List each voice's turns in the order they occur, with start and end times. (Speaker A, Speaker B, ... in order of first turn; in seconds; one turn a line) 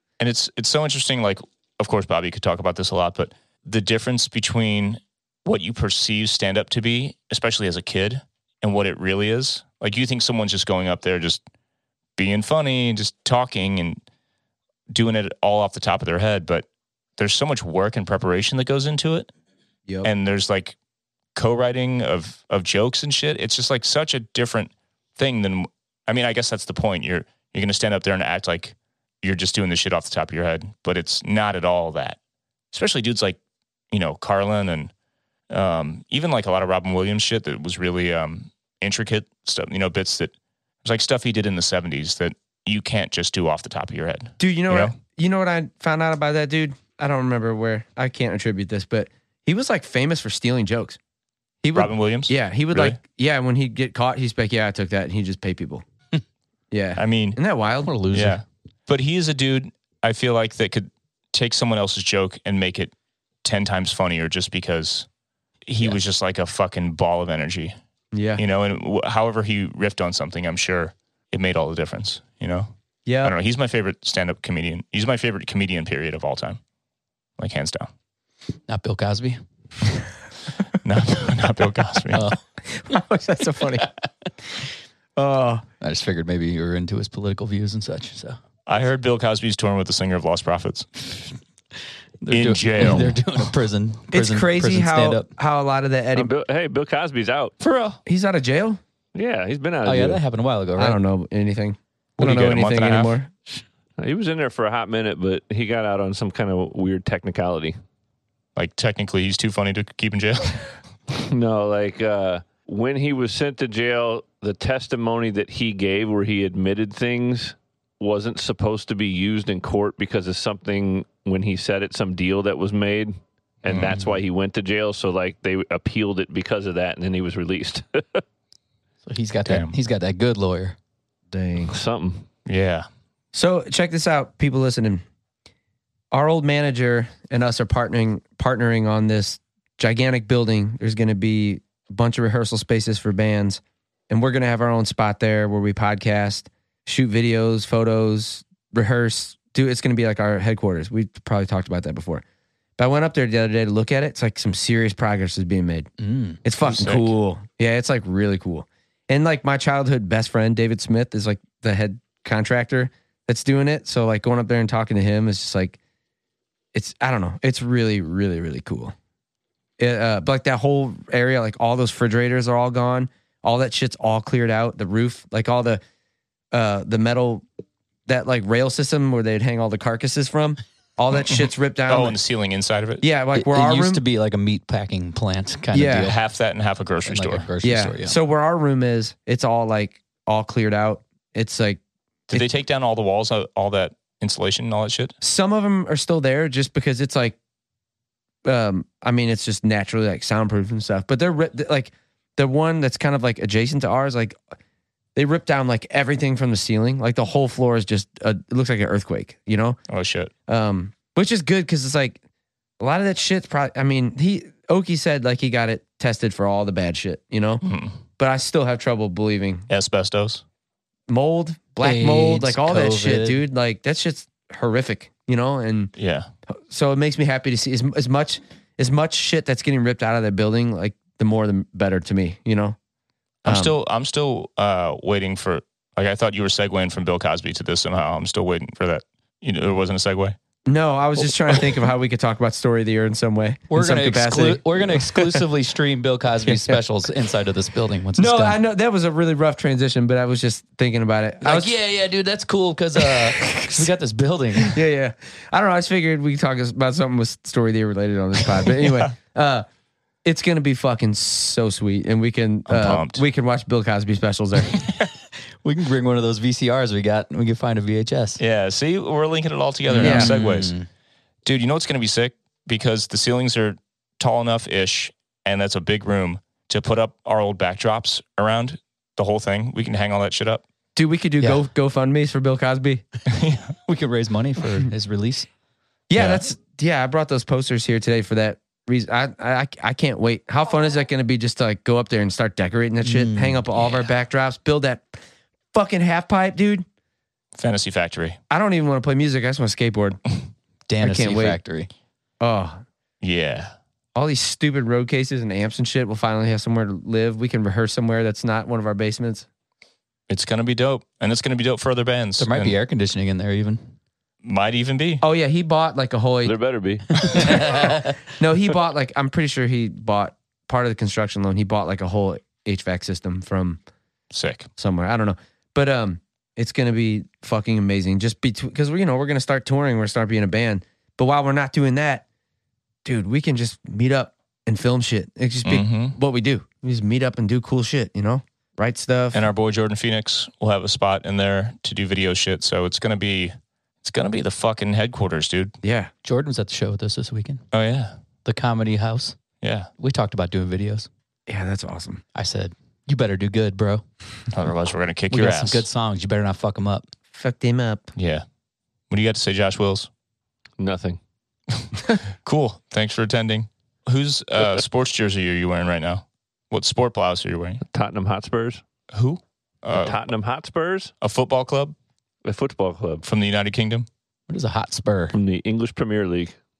Speaker A: 0.2-11.4
Speaker A: 12.2-14.0
Speaker A: 14.9-19.3
Speaker A: 20.0-20.8
Speaker A: 21.4-32.2
Speaker A: 32.7-33.4
Speaker A: 33.9-34.9
Speaker A: 35.5-40.3
Speaker A: 40.8-44.9
Speaker B: 44.4-51.0
Speaker B: 51.6-55.8
Speaker A: 51.7-53.0
Speaker B: 56.7-57.9
Speaker A: 57.0-57.4
Speaker C: 57.8-58.4
Speaker A: 58.1-62.9
Speaker A: 63.4-65.1
Speaker A: 65.7-67.8
Speaker B: 68.1-68.4
Speaker A: 68.4-72.7
Speaker B: 73.1-73.3
Speaker A: 73.2-76.6
Speaker A: 77.4-77.9
Speaker C: 78.7-79.4
Speaker A: 80.8-82.2
Speaker C: 82.1-82.4
Speaker B: 82.7-83.9
Speaker B: 85.2-85.6
Speaker C: 85.8-88.4
Speaker A: 88.7-90.9
Speaker C: 92.2-95.3
Speaker A: 92.3-93.5
Speaker B: 94.1-96.3
Speaker D: 96.1-97.6
Speaker A: 97.6-98.0
Speaker B: 98.1-98.8
Speaker D: 99.1-100.2
Speaker C: 99.8-101.0
Speaker B: 100.8-103.3
Speaker A: 102.2-103.1
Speaker D: 104.0-107.8
Speaker A: 108.6-110.7
Speaker D: 111.1-128.2
Speaker A: 123.7-124.0
Speaker C: 129.1-130.8
Speaker A: 129.5-129.7
Speaker B: 131.3-131.7
Speaker D: 131.7-132.2
Speaker A: 132.4-132.9
Speaker B: 133.3-135.0
Speaker B: 136.1-152.2
Speaker B: 152.8-155.9
Speaker C: 156.0-156.4
Speaker B: 156.4-165.8
Speaker A: 156.6-157.1
Speaker B: 166.7-168.9
Speaker B: 169.8-175.8
Speaker B: 176.5-177.4
Speaker B: 178.1-182.2
Speaker A: 181.1-183.1
Speaker B: 183.0-184.0
Speaker C: 183.3-186.2
Speaker B: 185.7-186.1
Speaker A: 186.0-187.5
Speaker C: 187.1-188.2
Speaker B: 187.6-192.5
Speaker A: 192.3-195.1
Speaker B: 195.2-197.4
Speaker B: 198.4-204.4
Speaker B: 205.1-209.8
Speaker A: 209.9-210.3
Speaker B: 210.5-212.2
Speaker B: 212.8-217.6
Speaker A: 217.6-218.0
Speaker B: 218.2-219.7
Speaker A: 219.7-220.4
Speaker B: 221.1-225.9
Speaker C: 221.8-223.4
Speaker A: 226.0-226.3
Speaker B: 226.5-232.8
Speaker A: 233.4-240.4
Speaker B: 233.4-233.8
Speaker B: 240.7-245.4
Speaker C: 243.7-248.6
Speaker B: 246.4-246.8
Speaker B: 248.2-251.7
Speaker C: 251.4-254.7
Speaker B: 253.1-253.9
Speaker B: 254.6-259.6
Speaker B: 260.2-264.8
Speaker A: 262.7-263.2
Speaker C: 265.6-268.4
Speaker A: 268.4-270.7
Speaker C: 269.9-270.9
Speaker B: 270.0-270.4
Speaker A: 271.4-280.6
Speaker B: 280.9-283.0
Speaker A: 283.3-283.7
Speaker C: 283.9-285.5
Speaker B: 286.1-295.2
Speaker A: 286.1-286.4
Speaker C: 293.0-293.7
Speaker B: 295.7-296.9
Speaker A: 297.6-298.4
Speaker B: 298.5-300.2
Speaker C: 300.9-301.9
Speaker B: 301.0-301.6
Speaker B: 302.4-302.8
Speaker A: 303.2-303.8
Speaker B: 304.1-309.5
Speaker A: 310.3-312.8
Speaker C: 312.4-313.8
Speaker A: 314.4-315.2
Speaker B: 315.2-316.6
Speaker D: 316.4-317.5
Speaker C: 317.2-318.1
Speaker B: 317.3-323.8
Speaker A: 324.3-324.7
Speaker B: 324.8-332.2
Speaker B: 333.0-339.5
Speaker A: 335.6-336.2
Speaker A: 339.3-345.8
Speaker B: 345.8-346.1
Speaker C: 346.2-347.6
Speaker A: 347.7-348.2
Speaker C: 348.4-349.4
Speaker A: 349.6-349.9
Speaker C: 350.0-351.1
Speaker B: 351.5-352.2
Speaker C: 352.4-354.0
Speaker A: 354.5-355.9
Speaker C: 355.3-357.1
Speaker B: 357.3-358.1
Speaker A: 358.1-358.4
Speaker A: 359.1-360.1
Speaker D: 360.8-361.2
Speaker A: 362.4-367.8
Speaker D: 367.9-368.8
Speaker A: 369.1-370.2
Speaker D: 369.9-371.1
Speaker A: 371.2-371.9
Speaker D: 372.4-373.2
Speaker A: 373.2-374.1
Speaker C: 374.5-375.4
Speaker D: 375.3-376.5